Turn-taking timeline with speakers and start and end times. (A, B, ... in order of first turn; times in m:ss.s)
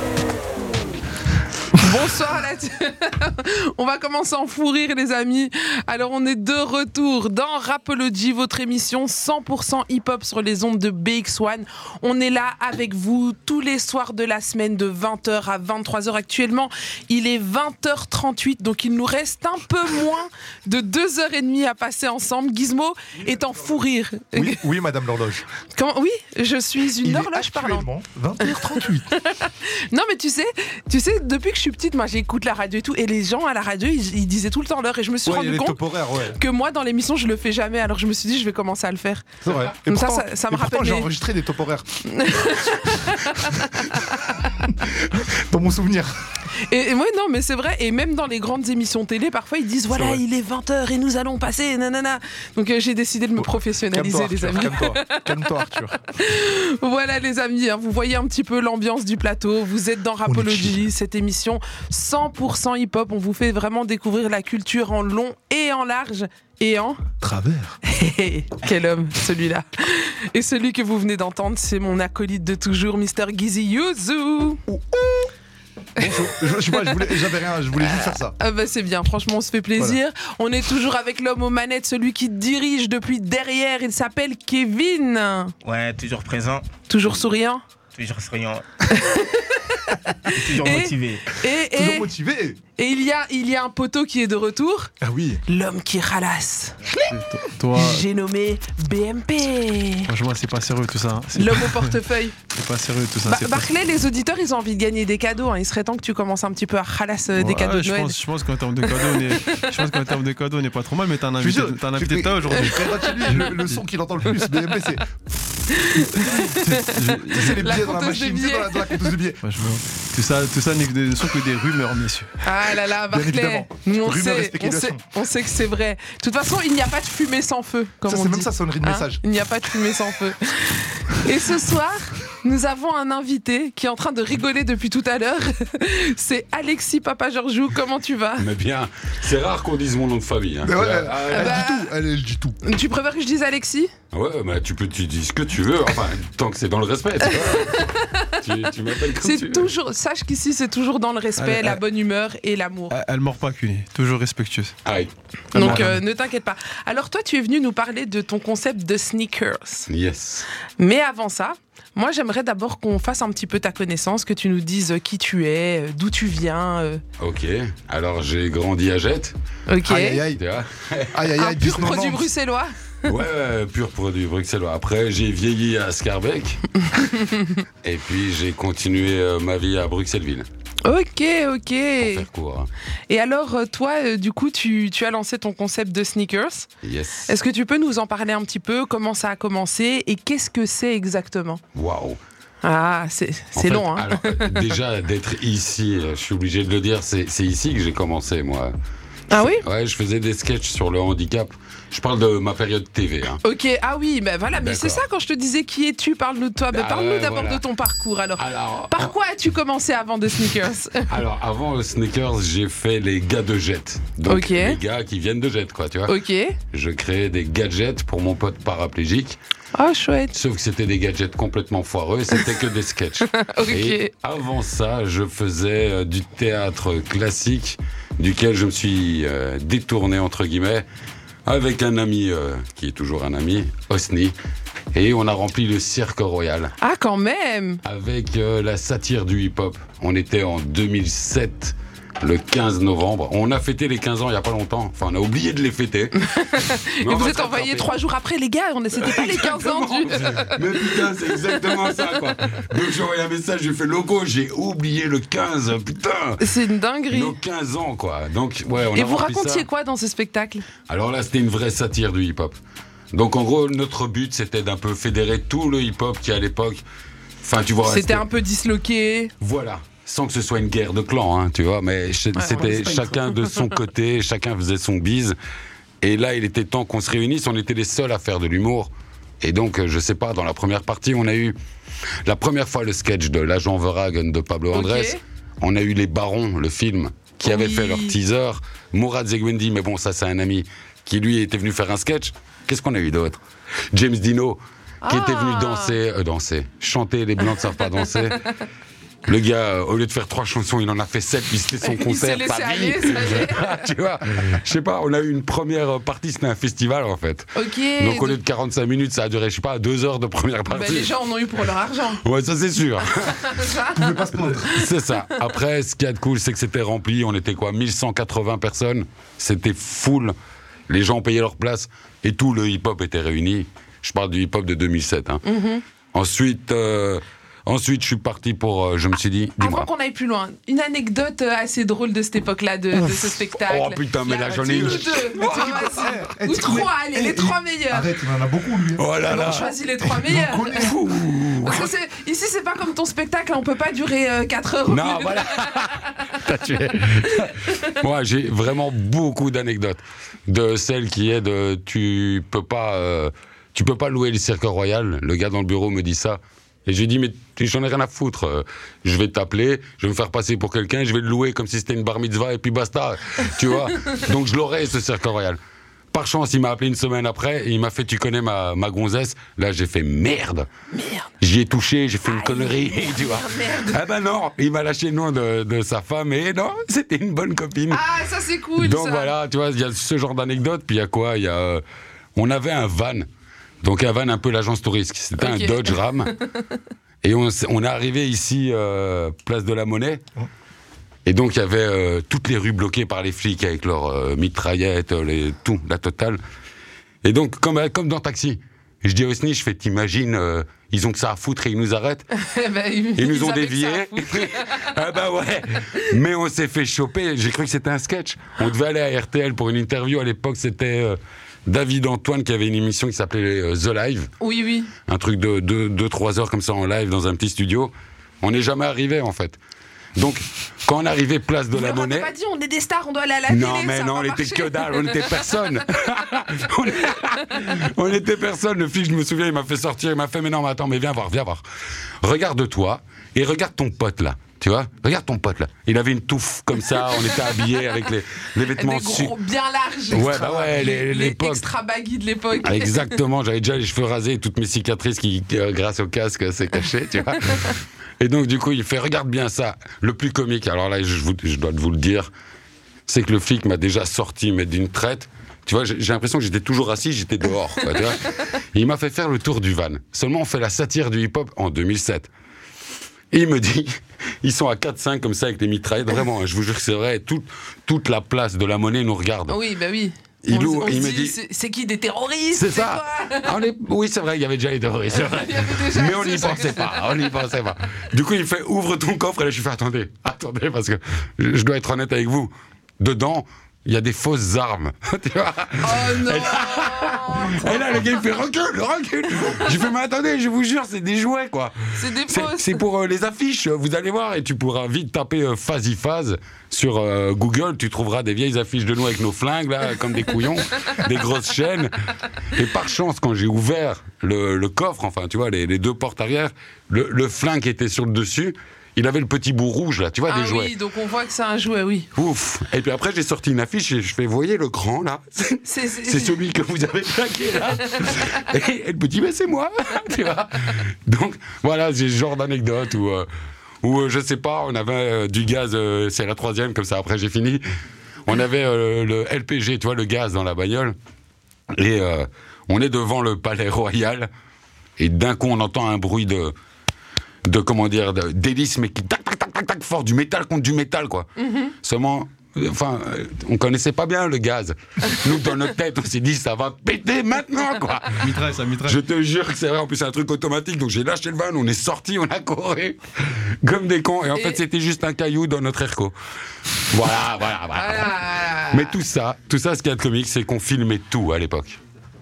0:01.8-0:24.6 A
0:24.3-0:25.4 B
0:25.7-0:27.8 A
0:27.0-0:29.1 B
0:28.4-0:35.8 A
0:35.2-0:36.4 B
0:36.3-0:39.3 A
0:39.4-0:41.9 B
0:39.8-0:41.1 A
0:42.0-0:44.3 A
0:44.6-0:46.2 B
0:46.7-0:55.3 A
0:53.4-0:56.0 B
0:56.2-1:07.0 A
1:00.2-1:00.9 B
1:07.2-1:07.8 B
1:07.8-1:14.6 A
1:14.7-1:15.3 B
1:16.0-1:18.4 B
1:16.0-1:17.1 A
1:17.8-1:25.5 A
1:25.6-1:26.6 C
1:26.9-1:27.6 A
1:27.9-1:28.6 C
1:28.9-1:32.1 A
1:30.3-1:31.3 C
1:31.7-1:32.6 B
1:32.8-1:34.9 A
1:35.0-1:35.4 B
1:35.5-1:36.8 A
1:37.1-1:38.0 D
1:37.7-1:40.1 A
1:40.1-1:42.0 D
1:41.4-1:42.4 A
1:42.5-1:43.7 D
1:43.2-1:48.2 A
1:47.4-1:53.8 D
1:49.0-1:49.7 A
1:51.4-1:55.2 B
1:52.9-1:53.5 A
1:55.7-1:59.1 A
1:56.7-1:57.7 D
1:57.3-1:59.4 B
1:59.4-2:02.3 D
2:02.4-2:18.4 A
2:03.1-2:05.0 B
2:08.0-2:09.2 B
2:18.4-2:21.6 E
2:20.6-2:22.6 B
2:21.3-2:21.9 A
2:22.6-2:23.9 A
2:24.1-2:29.7 E
2:27.3-2:28.4 A
2:29.2-2:33.0 A
2:31.4-2:31.8 D
2:32.9-2:34.8 D
2:34.8-2:35.9 E
2:35.5-2:39.9 A
2:35.6-2:36.0 D
2:39.9-2:40.5 E
2:40.8-2:47.0 A
2:47.2-2:49.3 E
2:49.7-2:50.2 A
2:49.8-2:50.4 B
2:50.3-2:51.3 E
2:51.1-2:52.3 B
2:51.4-2:52.7 A
2:53.0-2:56.7 E
2:56.9-2:57.6 A
2:57.8-3:00.4 E
3:00.8-3:02.2 A
3:02.0-3:02.7 E
3:03.1-3:06.7 A
3:06.8-3:07.3 E
3:07.3-3:11.6 A
3:11.7-3:12.2 E
3:12.6-3:14.7 A
3:13.6-3:18.7 E
3:19.3-3:19.6 A
3:19.4-3:23.4 E
3:23.4-3:31.1 A
3:24.5-3:25.0 E
3:26.7-3:27.6 E
3:28.4-3:29.1 E
3:31.1-3:36.2 E
3:34.3-3:34.8 A
3:36.1-3:36.6 A
3:36.7-3:39.4 E
3:39.7-3:40.3 A
3:40.3-3:50.8 E
3:43.3-3:44.1 A
3:51.4-3:54.3 E
3:54.9-3:56.7 E
3:56.8-3:57.8 A
3:57.8-4:06.2 E
4:06.2-4:10.6 A
4:07.0-4:07.9 E
4:09.0-4:16.4 E
4:16.4-4:17.3 A
4:17.1-4:19.7 E
4:18.9-4:20.6 A
4:20.9-4:22.6 E
4:23.1-4:26.8 E
4:27.4-4:28.2 E
4:27.8-4:29.3 A
4:29.4-4:35.4 E
4:32.4-4:33.2 A
4:36.0-4:41.6 E
4:42.2-4:53.4 E
4:44.7-4:45.2 A
4:47.4-4:48.1 A
4:53.9-4:58.4 E
4:55.0-4:55.9 A
4:59.3-5:11.1 E
5:01.8-5:03.9 A
5:07.5-5:08.4 A
5:10.7-5:12.2 A
5:12.2-5:13.6 E
5:13.4-5:14.8 A
5:13.9-5:14.7 B
5:14.7-5:20.3 E
5:20.9-5:25.4 E
5:25.4-5:25.8 A
5:26.1-5:29.9 E
5:29.6-5:38.1 A
5:32.9-5:36.3 E
5:34.5-5:41.0 B
5:39.0-5:39.7 E
5:39.3-5:40.9 A
5:40.8-5:41.9 E
5:41.6-5:46.0 A
5:44.9-6:05.6 E
5:47.4-5:47.8 A
6:06.1-6:10.7 E
6:10.9-6:11.3 A
6:11.4-6:18.0 E
6:12.3-6:14.0 A
6:17.9-6:19.3 A
6:18.8-6:21.8 E
6:22.4-6:23.3 E
6:23.8-6:26.3 E
6:25.4-6:26.4 A
6:27.2-6:30.2 E
6:31.2-6:36.4 E
6:37.2-6:42.2 E
6:42.3-6:44.9 A
6:43.2-6:54.3 E
6:54.4-6:54.9 A
6:55.1-6:59.6 E
7:00.2-7:02.3 E
7:01.7-7:05.3 A
7:03.5-7:11.6 E
7:12.2-7:19.3 E
7:18.7-7:23.1 A
7:20.1-7:21.6 E
7:20.3-7:20.7 B
7:22.6-7:32.3 E
7:33.1-7:42.3 E
7:43.3-7:49.6 E
7:49.5-7:53.5 A
7:50.4-7:51.4 E
7:52.5-8:11.8 E
7:55.1-7:57.1 A
8:05.8-8:08.2 A
8:11.9-8:12.8 A
8:12.3-8:21.9 E
8:22.5-8:30.7 E
8:30.3-8:32.1 A
8:32.2-8:43.3 E
8:35.6-8:36.4 A
8:43.8-8:47.6 E
8:48.3-8:50.9 E
8:51.7-8:54.3 E
8:55.0-8:56.5 E
8:57.4-9:01.3 E
9:01.4-9:01.7 A
9:01.8-9:08.3 E
9:08.2-9:09.0 D
9:08.8-9:16.1 E
9:14.3-9:14.6 A
9:16.9-9:21.8 E
9:17.8-9:18.9 A